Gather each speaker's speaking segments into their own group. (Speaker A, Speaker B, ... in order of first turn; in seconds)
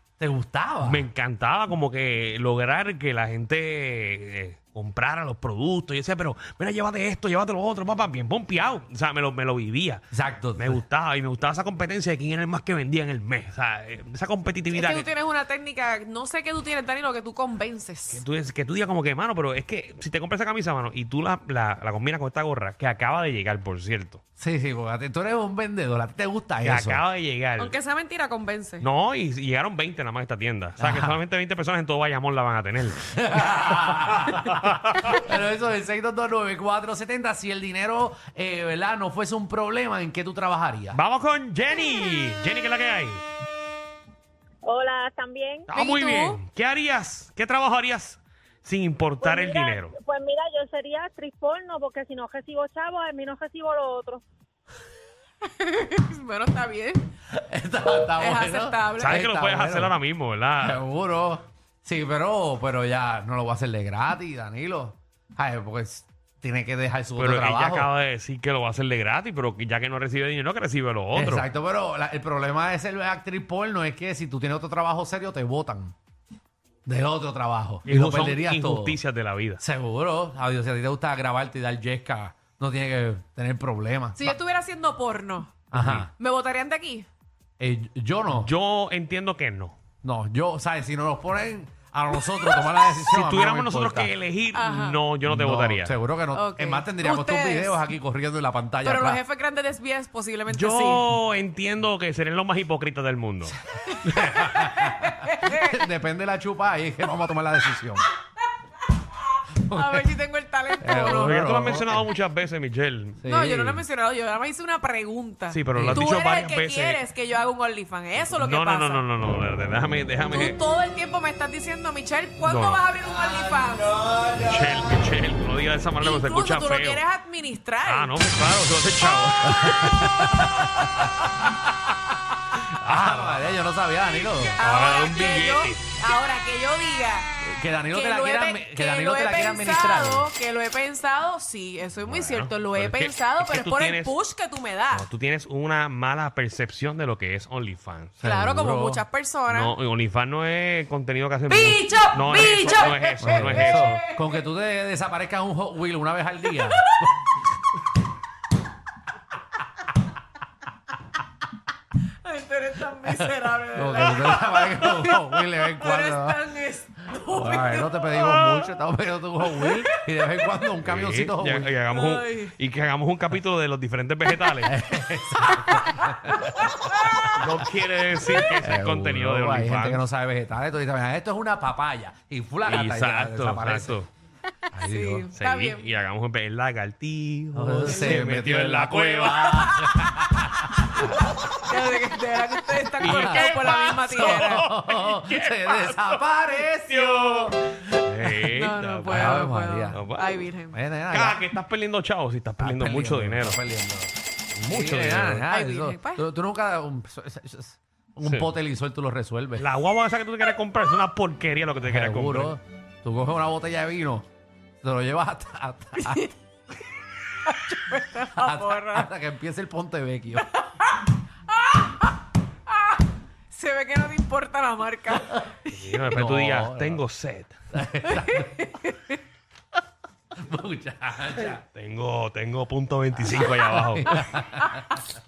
Speaker A: 0.2-1.1, 10.1-10.8, 24.4-27.0, 30.8-31.2, 33.0-41.0, 57.3-60.0, 60.6-67.9, 71.2-76.0, 76.9-79.0, 79.6-84.3, 85.7-86.1, 87.6-88.5, 90.0-94.1, 95.2-99.2, 104.0-108.1, 109.7-110.2, 110.8-112.1, 113.2-113.8, 115.7-116.1, 129.5-131.1, 132.8-134.6, 137.4-140.3, 148.2-149.0, 153.2-157.4, 163.1-166.4, 167.2-171.7, 174.7-177.1, 178.6-184.0, 184.7-185.3, 187.6-191.2, 193.0-198.4, 199.1-200.0, 200.7-201.4, 202.6-209.7, 211.8-214.3, 214.8-216.3, 218.3-220.6, 226.1-227.0, 227.7-228.7, 230.3-231.6, 233.2-234.8
Speaker B: 0.8-10.1, 10.6-15.1, 18.1-24.2, 26.6-27.8, 28.8-35.2, 40.9-43.2, 45.7-50.0, 59.0-60.8, 67.2-71.5, 77.8-79.6, 85.7-86.1, 88.4-89.8, 93.0-95.9, 100.5-103.5, 111.0-113.2, 115.5-117.0, 118.3-120.6, 122.5-122.8, 124.3-127.0, 127.8-129.8, 132.8-133.5, 134.6-135.9, 142.1-144.2, 144.9-148.2, 149.5-154.0, 170.8-174.8, 177.3-180.0, 182.7-184.1, 185.3-189.7, 193.0-196.2, 196.9-197.5, 198.0-200.5, 201.1-203.6, 204.5-205.4, 208.2-208.5, 209.6-212.6, 225.7-227.6, 231.5-234.2
Speaker C: 14.7-18.2, 27.6-28.9, 45.8-46.4, 55.6-57.0, 58.2-59.2, 84.2-87.1, 94.5-95.0, 96.3-97.8, 98.8-101.0, 104.1-105.8, 109.7-111.3, 113.2-119.0, 120.2-124.2, 126.0-128.2, 129.8-131.1, 134.6-137.3, 137.9-145.1, 148.2-149.8, 151.5-154.0, 156.6-156.9, 162.2-168.7, 169.4-170.2, 171.9-172.5, 175.5-177.3, 184.8-185.8, 189.7-190.1, 191.0-194.6, 198.6-200.8, 205.5-206.2, 216.0-216.3, 217.5-219.1, 220.6-222.1, 223.5-226.0, 228.1-229.2
Speaker D: 44.6-45.7, 49.2-54.2